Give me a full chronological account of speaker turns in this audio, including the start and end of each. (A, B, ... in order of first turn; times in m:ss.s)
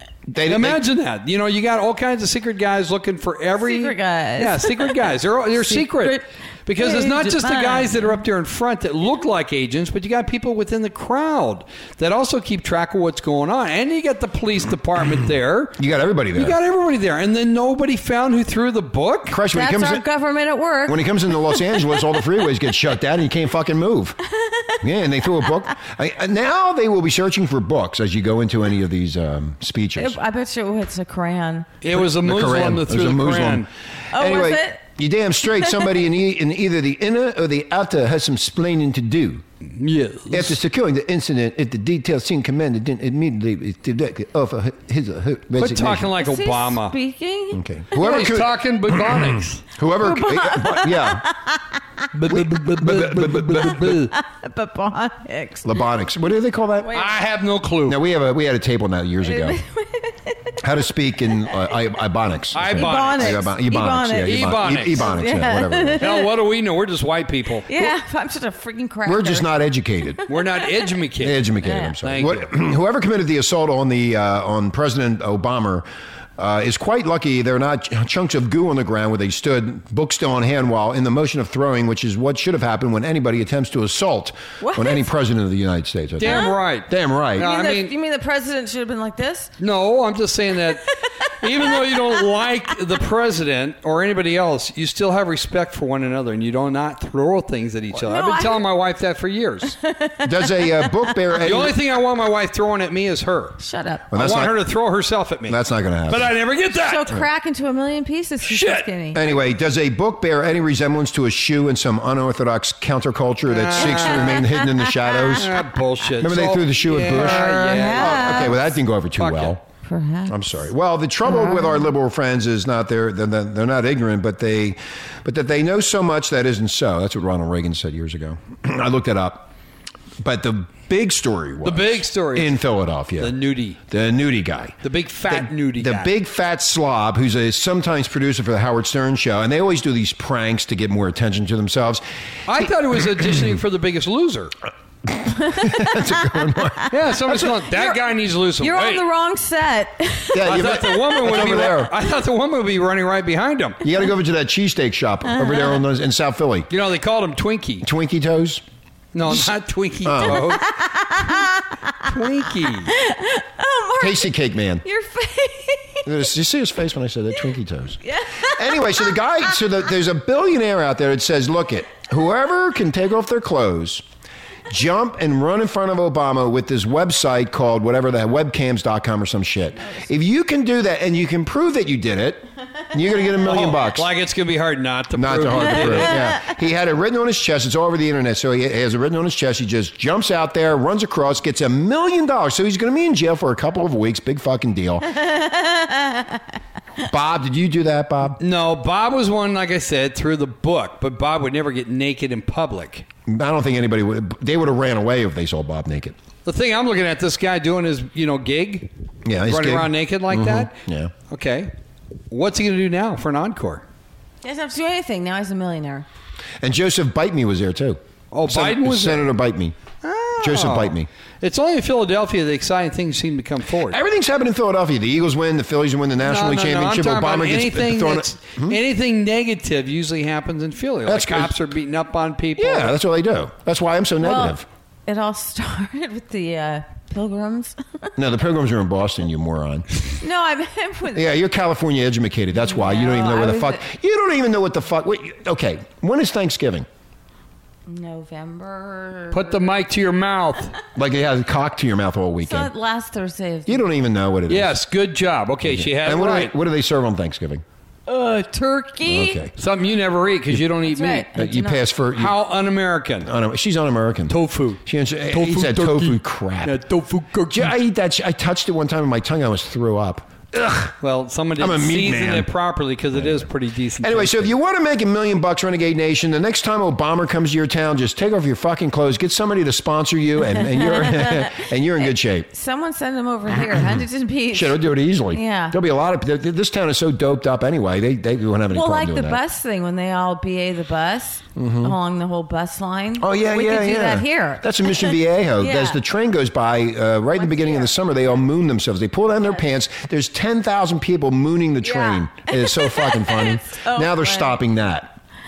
0:00.3-0:00.8 A
0:00.5-0:15.8 B
0:03.6-0:06.2 C
0:06.8-0:08.2 C
0:15.8-0:16.6 A
0:16.3-0:19.4 B
0:19.3-0:20.0 A
0:19.5-0:22.2 C
0:20.9-0:24.2 A
0:24.4-0:24.8 C
0:24.8-0:30.2 A
0:30.0-0:31.7 C
0:31.8-0:33.7 B
0:31.9-0:39.4 A
0:34.1-0:34.8 C
0:35.4-0:35.8 C
0:39.8-0:40.6 B
0:40.3-0:46.1 A
0:45.6-0:47.0 B
0:46.2-0:48.1 C
0:47.5-0:51.2 A
0:47.9-0:49.7 B
0:50.0-0:51.8 C
0:52.1-0:54.1 B
0:52.3-0:54.1 A
0:53.8-0:55.7 C
0:55.6-0:57.0 A
0:56.8-0:57.1 C
0:56.9-0:58.0 B
0:57.9-0:59.6 A
0:59.2-1:00.6 C
1:00.6-1:06.1 A
1:02.5-1:03.5 B
1:02.8-1:06.3 C
1:04.2-1:05.1 B
1:06.0-1:07.9 B
1:07.7-1:09.5 C
1:09.1-1:10.2 A
1:10.3-1:11.5 B
1:11.2-1:15.9 A
1:11.6-1:11.9 C
1:12.0-1:12.5 B
1:16.4-1:27.5 A
1:24.6-1:25.1 C
1:26.2-1:27.9 B
1:26.2-1:26.6 C
1:27.4-1:29.5 C
1:29.6-1:39.8 B
1:31.8-1:32.1 C
1:38.0-1:38.7 C
1:39.8-1:41.1 C
1:40.2-1:41.8 A
1:41.4-1:43.6 B
1:43.6-1:44.1 C
1:44.1-1:44.5 A
1:44.1-1:47.1 B
1:45.5-1:46.3 A
1:46.7-1:49.2 C
1:48.4-1:48.9 B
1:49.1-1:55.5 A
1:53.5-1:54.5 B
1:53.8-1:55.4 C
1:55.4-1:59.6 B
1:56.2-1:59.6 A
1:57.1-1:58.6 C
1:59.8-2:00.4 C
2:00.3-2:09.5 A
2:01.2-2:01.9 C
2:10.2-2:13.4 A
2:11.6-2:12.6 B
2:13.2-2:13.8 B
2:13.9-2:22.0 A
2:14.8-2:16.1 B
2:22.5-2:24.6 B
2:25.0-2:27.5 A
2:25.4-2:26.0 C
2:26.9-2:29.1 B
2:27.7-2:28.0 C
2:28.6-2:30.6 C
2:30.3-2:31.9 A
2:30.4-2:33.8 B
2:33.8-2:36.7 A
2:35.3-2:35.8 C
2:36.7-2:37.9 B
2:37.8-2:38.6 A
2:39.1-2:40.7 B
2:40.0-2:40.6 A
2:40.3-2:41.9 C
2:42.0-2:42.9 B
2:42.9-2:44.3 C
2:44.0-2:44.8 A
2:44.8-2:46.1 C
2:46.0-2:54.0 A
2:48.0-2:49.1 C
2:54.7-3:04.1 A
3:03.4-3:06.3 B
3:05.2-3:15.1 A
3:05.6-3:06.4 C
3:15.1-3:16.4 C
3:17.1-3:18.4 A
3:18.4-3:23.0 B
3:23.3-3:26.2 A
3:26.4-3:28.9 B
3:29.2-3:31.1 A
3:29.4-3:30.7 B
3:31.3-3:31.7 B
3:32.3-3:33.8 B
3:34.4-3:36.1 C
3:36.6-3:39.8 A
3:38.3-3:39.3 B
3:40.0-3:44.0 B
3:40.4-3:41.1 A
3:43.9-3:48.8 A
3:46.2-3:53.0 B
3:51.1-3:51.6 A
3:52.6-3:54.6 A
3:54.2-3:58.1 C
3:58.2-3:59.9 A
4:00.2-4:01.3 C
4:01.1-4:06.9 A
4:02.5-4:03.8 C
4:07.9-4:09.6 C
4:09.3-4:10.7 B
4:11.0-4:12.7 A
4:12.4-4:13.9 C
4:13.7-4:14.8 A
4:14.5-4:16.5 B
4:15.7-4:17.6 A
4:18.1-4:19.4 C
4:19.1-4:19.5 A
4:19.6-4:21.3 B
4:20.8-4:21.8 C
4:21.4-4:22.4 A
4:22.2-4:23.3 B
4:23.2-4:26.8 A
4:24.3-4:27.7 B
4:27.5-4:31.0 A
4:31.0-4:34.5 B
4:31.6-4:32.5 A
4:33.2-4:33.5 A
4:34.0-4:42.5 A
4:40.5-4:41.7 C
4:42.5-4:45.8 C
4:44.5-4:49.4 A
4:48.7-4:56.0 C
4:51.6-4:51.9 A
4:53.2-5:05.2 A
4:57.4-4:58.0 C
5:01.8-5:04.6 C